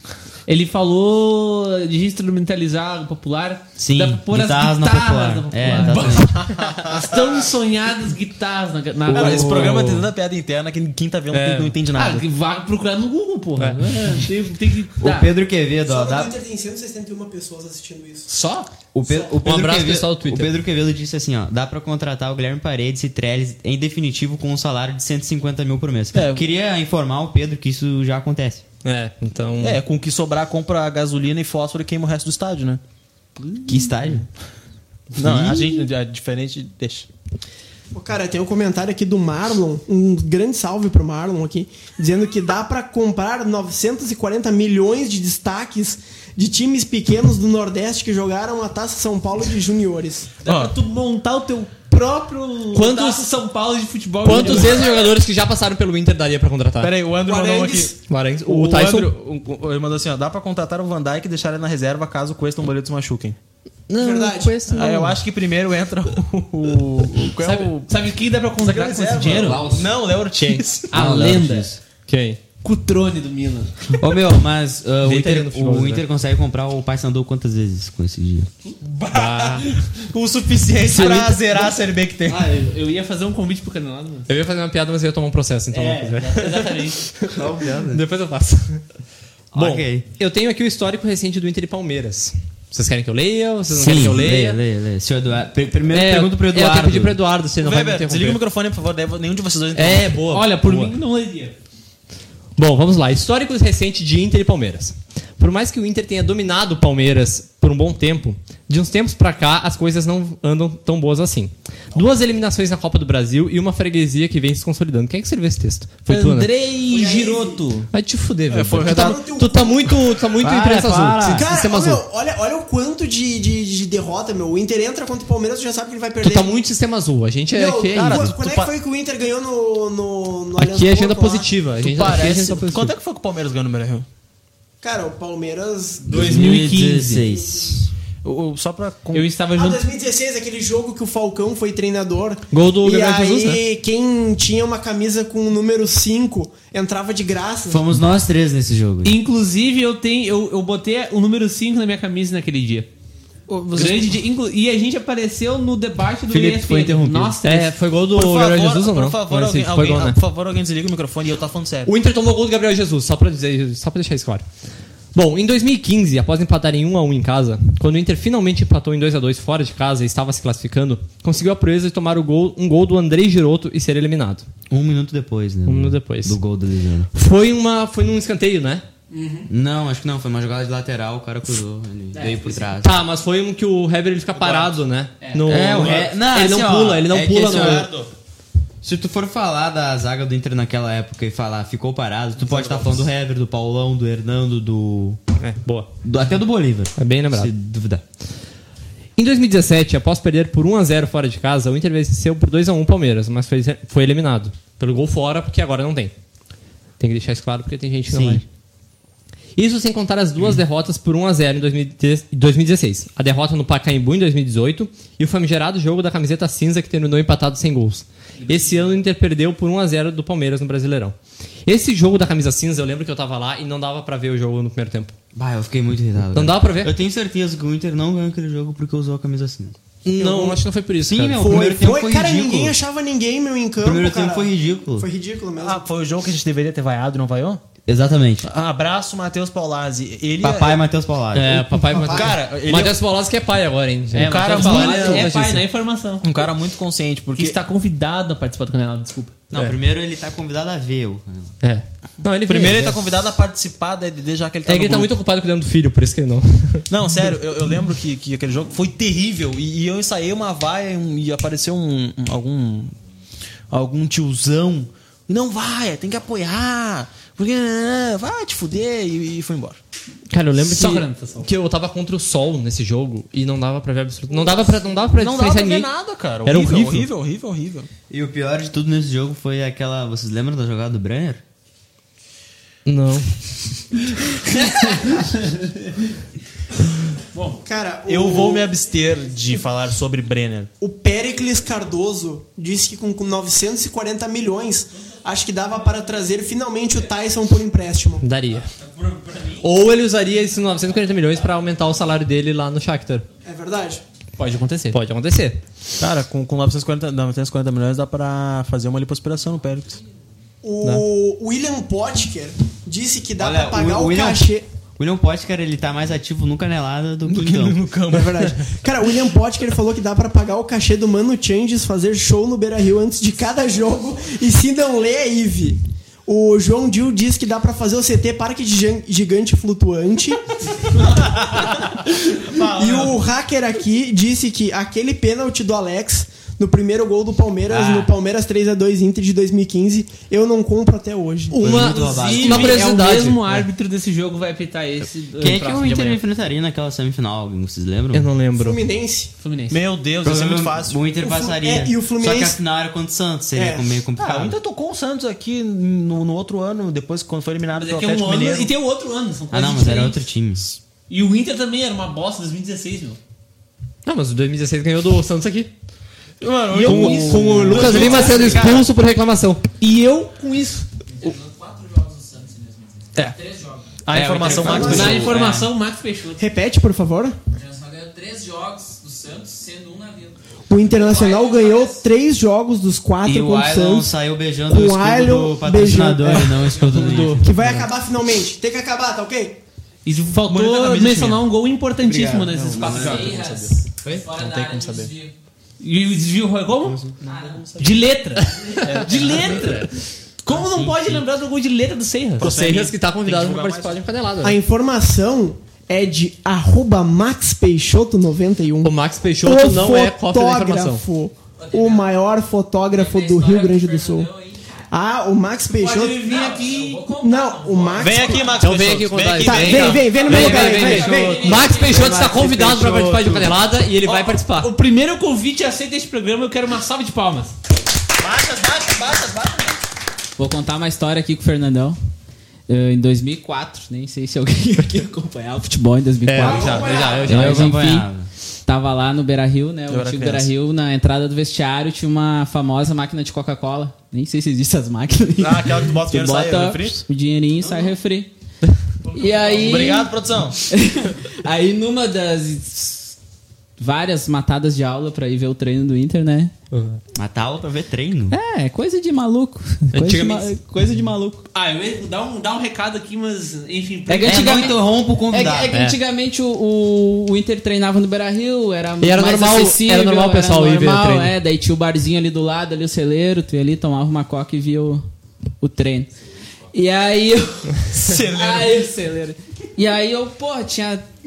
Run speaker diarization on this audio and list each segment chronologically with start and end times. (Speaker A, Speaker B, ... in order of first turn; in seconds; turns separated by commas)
Speaker A: 0.5-9.8, Speaker B: 3.8-6.4, Speaker C: 6.4-7.0, Speaker B: 9.1-10.0, Speaker C: 9.1-12.3, Speaker D: 11.3-11.8, Speaker A: 11.9-15.3, Speaker D: 13.6-14.1, Speaker B: 15.0-16.3, Speaker E: 15.8-18.3, Speaker A: 18.3-18.7, Speaker B: 18.9-28.6, Speaker D: 19.4-20.5, Speaker C: 26.1-26.4, Speaker D: 28.8-29.8, Speaker C: 29.6-32.8, Speaker B: 33.6-34.3, Speaker C: 35.1-37.1, Speaker B: 35.2-35.8, Speaker E: 37.9-50.4, Speaker C: 50.4-50.8, Speaker A: 50.4-55.0, Speaker D: 52.7-53.2, Speaker D: 54.2-56.9, Speaker C: 56.8-63.4, Speaker E: 57.3-57.7, Speaker D: 58.1-59.1, Speaker D: 63.9-65.2, Speaker E: 64.0-64.7, Speaker C: 64.7-67.9, Speaker A: 67.4-69.7, Speaker C: 68.6-70.9, Speaker D: 70.3-70.6, Speaker A: 70.9-71.7, Speaker B: 70.9-71.8, Speaker D: 72.1-72.4, Speaker A: 72.6-73.7, Speaker B: 74.0-78.5, Speaker D: 75.0-76.0, Speaker C: 79.0-82.5, Speaker D: 79.1-79.7, Speaker D: 80.9-81.6, Speaker A: 82.3-84.3, Speaker D: 84.3-87.3, Speaker A: 85.7-87.0, Speaker B: 87.3-88.0, Speaker D: 87.9-88.8, Speaker B: 89.5-90.0, Speaker D: 89.5-94.6, Speaker B: 93.7-97.2, Speaker D: 95.9-98.4, Speaker C: 97.6-100.2, Speaker D: 99.7-100.9, Speaker A: 100.3-101.5, Speaker D: 102.6-116.5, Speaker A: 116.1-117.9, Speaker E: 116.9-117.6, Speaker D: 117.9-122.0, Speaker C: 118.5-119.2, Speaker E: 118.8-120.0, Speaker B: 120.4-121.5, Speaker E: 121.3-126.5, Speaker D: 126.2-128.3, Speaker E: 127.5-131.5, Speaker C: 127.9-128.7, Speaker D: 130.6-132.9, Speaker C: 131.8-134.1, Speaker E: 134.8-136.2, Speaker B: 136.1-137.9, Speaker A: 136.1-137.2, Speaker C: 138.2-139.3, Speaker A: 139.1-139.8, Speaker E: 139.5-147.8, Speaker D: 142.5-143.6, Speaker B: 147.7-149.2, Speaker A: 149.0-152.9, Speaker C: 153.5-154.2, Speaker A: 153.7-157.8, Speaker B: 156.3-157.4, Speaker D: 157.4-160.2, Speaker C: 158.1-161.9, Speaker D: 161.8-164.4, Speaker D: 165.1-174.4, Speaker B: 174.7-177.1, Speaker D: 175.7-176.4, Speaker D: 177.1-178.8, Speaker A: 179.1-179.5, Speaker B: 179.5-183.0, Speaker A: 182.1-182.6, Speaker D: 182.8-187.9, Speaker C: 184.3-184.8, Speaker B: 185.5-187.9, Speaker C: 185.6-186.1, Speaker C: 187.6-188.1, Speaker B: 188.8-195.2, Speaker D: 195.4-195.9, Speaker B: 196.0-198.0, Speaker D: 197.0-197.5, Speaker D: 199.2-206.1, Speaker D: 207.0-208.4, Speaker B: 208.1-208.4, Speaker D: 209.6-225.1, Speaker A: 218.4-219.0, Speaker B: 225.3-232.8, Speaker D: 226.3-226.9, Speaker D: 230.0-231.5, Speaker E: 231.3-235.9, Speaker B: 233.8-235.1, Speaker C: 235.6-237.6, Speaker B: 237.9-238.5, Speaker C: 238.4-240.8, Speaker B: 240.4-241.7, Speaker D: 241.3-245.7, Speaker E: 241.9-242.3, Speaker C: 241.9-243.0, Speaker C: 244.1-245.3, Speaker B: 244.2-244.5, Speaker A: 244.4-246.4, Speaker C: 246.2-247.6, Speaker A: 247.3-249.4, Speaker B: 249.5-251.5, Speaker D: 251.6-253.0, Speaker C: 252.5-255.1, Speaker D: 254.6-256.9, Speaker C: 256.9-262.9, Speaker C: 263.7-269.8, Speaker D: 270.3-275.9, Speaker A: 270.6-271.5, Speaker C: 275.1-277.9, Speaker D: 276.4-277.1, Speaker B: 278.1-281.4, Speaker D: 282.9-283.3, Speaker A: 285.0-285.8, Speaker A: 287.3-287.6, Speaker E: 287.6-288.8, Speaker C: 288.1-290.7, Speaker E: 290.8-298.2, Speaker D: 298.2-298.7, Speaker D: 299.6-303.2, Speaker E: 303.4-304.0, Speaker A: 304.4-304.9, Speaker D: 304.9-305.6, Speaker C: 306.0-310.0, Speaker E: 310.6-314.6, Speaker B: 313.4-317.9, Speaker C: 317.3-318.8, Speaker E: 318.1-331.1, Speaker E: 332.1-341.6, Speaker C: 332.5-333.2, Speaker B: 337.7-338.1, Speaker D: 341.5-343.6, Speaker B: 341.5-342.9, Speaker A: 341.6-346.2, Speaker B: 345.4-348.3, Speaker D: 348.1-348.8, Speaker E: 348.5-349.3, Speaker A: 349.4-349.8, Speaker C: 349.7-351.0, Speaker B: 350.2-354.6, Speaker E: 351.2-352.6, Speaker E: 353.5-354.0, Speaker C: 354.2-358.7, Speaker A: 357.8-360.2, Speaker B: 359.5-360.8, Speaker A: 361.1-363.2, Speaker D: 364.1-365.7, Speaker C: 366.4-368.8, Speaker A: 366.7-368.6, Speaker D: 366.7-369.6, Speaker B: 367.6-368.8, Speaker A: 369.8-370.9, Speaker F: 371.2-374.9, Speaker C: 374.0-375.4, Speaker B: 374.1-375.6, Speaker E: 374.5-375.2, Speaker A: 374.7-376.4, Speaker E: 376.4-377.4, Speaker F: 377.5-382.0, Speaker E: 380.7-384.1, Speaker B: 383.2-387.5, Speaker E: 384.7-386.7, Speaker F: 386.7-387.4, Speaker E: 387.4-389.6, Speaker A: 390.0-393.2, Speaker C: 390.4-391.5, Speaker B: 392.0-393.3, Speaker C: 392.5-395.1, Speaker F: 392.7-395.3, Speaker A: 395.8-397.1, Speaker F: 397.2-397.7, Speaker C: 397.2-397.9, Speaker A: 397.8-399.9, Speaker D: 398.6-399.9, Speaker C: 398.8-399.6, Speaker A: 400.4-402.5, Speaker B: 400.5-401.2, Speaker C: 402.4-404.0, Speaker D: 402.4-404.6, Speaker E: 404.4-414.3, Speaker D: 408.8-411.0, Speaker F: 411.6-412.1, Speaker F: 412.9-414.8, Speaker E: 414.9-416.3, Speaker A: 415.7-417.1, Speaker F: 416.2-418.6, Speaker E: 417.2-418.7, Speaker C: 418.0-420.6, Speaker D: 418.6-424.7, Speaker E: 419.4-421.6, Speaker F: 420.2-422.3, Speaker A: 420.9-421.3, Speaker B: 421.7-423.6, Speaker A: 424.0-427.6, Speaker C: 428.2-429.8, Speaker F: 430.4-432.0, Speaker F: 432.7-438.1, Speaker D: 436.2-438.0, Speaker E: 436.4-437.2, Speaker A: 436.5-437.1, Speaker B: 437.2-438.3, Speaker F: 438.6-448.3, Speaker C: 439.9-440.5, Speaker C: 445.4-447.0, Speaker F: 449.1-453.1, Speaker C: 449.4-450.6, Speaker F: 453.8-456.5, Speaker D: 456.7-457.0, Speaker B: 457.1-458.4, Speaker F: 458.3-461.4, Speaker D: 459.9-460.5, Speaker A: 461.5-464.8, Speaker F: 464.1-475.0, Speaker B: 464.2-465.7, Speaker D: 465.7-466.0, Speaker D: 469.0-471.3, Speaker F: 475.6-476.1, Speaker F: 476.7-481.1, Speaker C: 477.9-478.9